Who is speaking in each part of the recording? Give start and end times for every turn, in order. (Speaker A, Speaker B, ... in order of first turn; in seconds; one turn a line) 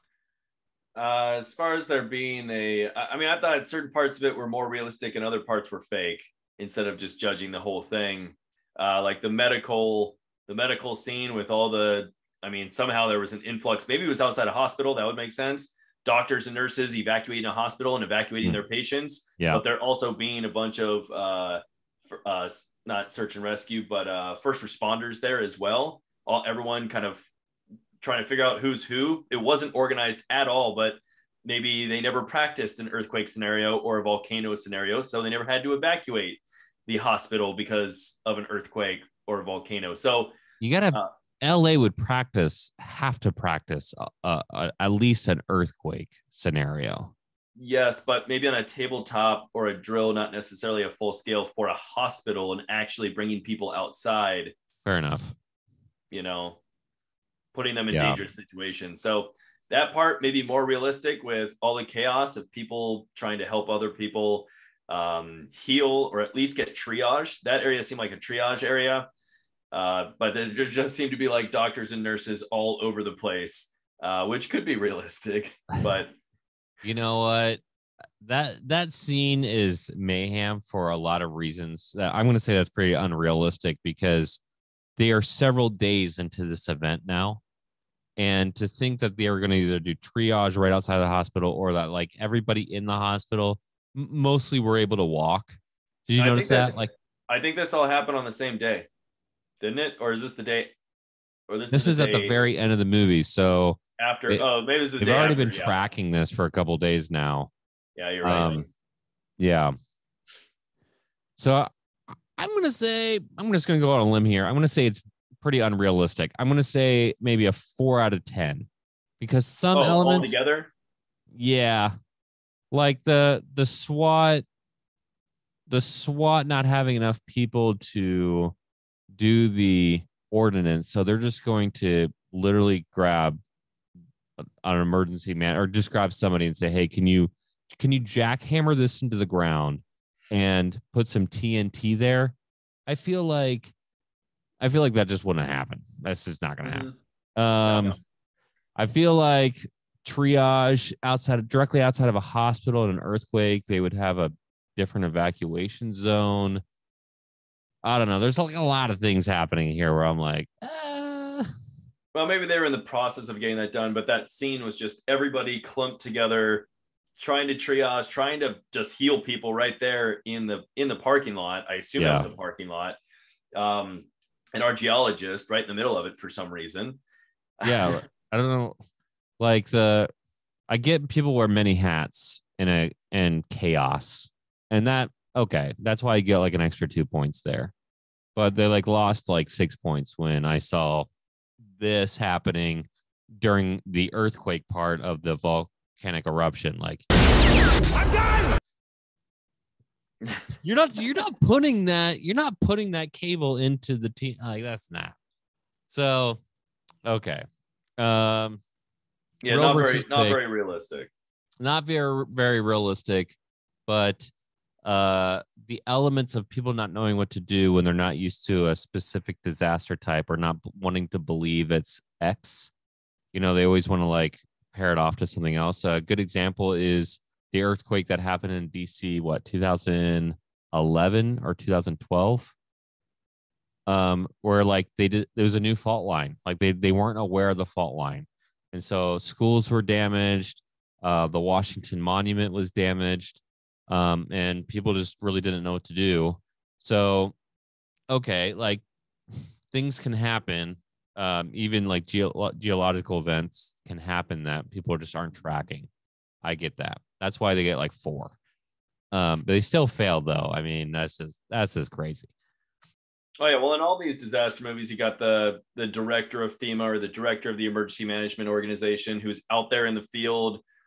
Speaker A: 1.0-27.3
Speaker A: 28.0-40.3
Speaker B: 40.6-47.1
Speaker A: 47.6-54.5
Speaker B: 54.9-55.3
Speaker A: 56.1-56.6
Speaker A: 57.5-69.1
Speaker B: 57.9-58.2
Speaker A: 69.7-76.2
Speaker B: 76.8-77.6
Speaker B: 78.2-84.4
Speaker B: 85.0-87.4
Speaker B: 88.2-96.9
Speaker A: 96.2-98.9
Speaker A: 99.6-100.7
Speaker A: 101.5-102.4
Speaker B: 101.7-104.5
Speaker A: 104.0-105.8
Speaker B: 105.0-107.5
Speaker A: 108.0-108.7
Speaker B: 108.2-108.6
Speaker B: 109.4-109.7
Speaker B: 111.4-111.7
Speaker B: 112.3-118.7
Speaker B: 119.2-120.3
Speaker A: 119.7-120.7
Speaker B: 121.3-121.9
Speaker B: 122.7-124.5
Speaker B: 125.7-128.6
Speaker B: 129.1-133.4
Speaker B: 134.4-142.4
Speaker B: 142.9-143.7
Speaker B: 144.6-148.0
Speaker A: 146.6-147.0
Speaker A: 147.6-148.0
Speaker B: 148.8-156.6
Speaker B: 157.8-161.5
Speaker A: 162.1-173.0
Speaker B: 172.0-172.3
Speaker A: 173.5-177.0
Speaker A: 177.6-178.0
Speaker B: 177.6-178.8
Speaker B: 179.4-180.1
Speaker B: 180.7-187.7
Speaker B: 188.4-191.1
Speaker B: 191.7-197.1
Speaker B: 200.6-205.2
Speaker B: 205.9-206.4
Speaker B: 207.1-207.4
Speaker B: 208.0-208.6
Speaker A: 209.4-211.1
Speaker B: 209.5-210.4
Speaker B: 211.6-214.3
Speaker B: 214.8-222.7
Speaker B: 223.3-232.6
Speaker B: 233.9-247.3
Speaker B: 248.1-248.8
Speaker B: 249.7-255.9
Speaker B: 256.4-258.4
Speaker B: 259.1-262.3
Speaker A: 263.4-270.6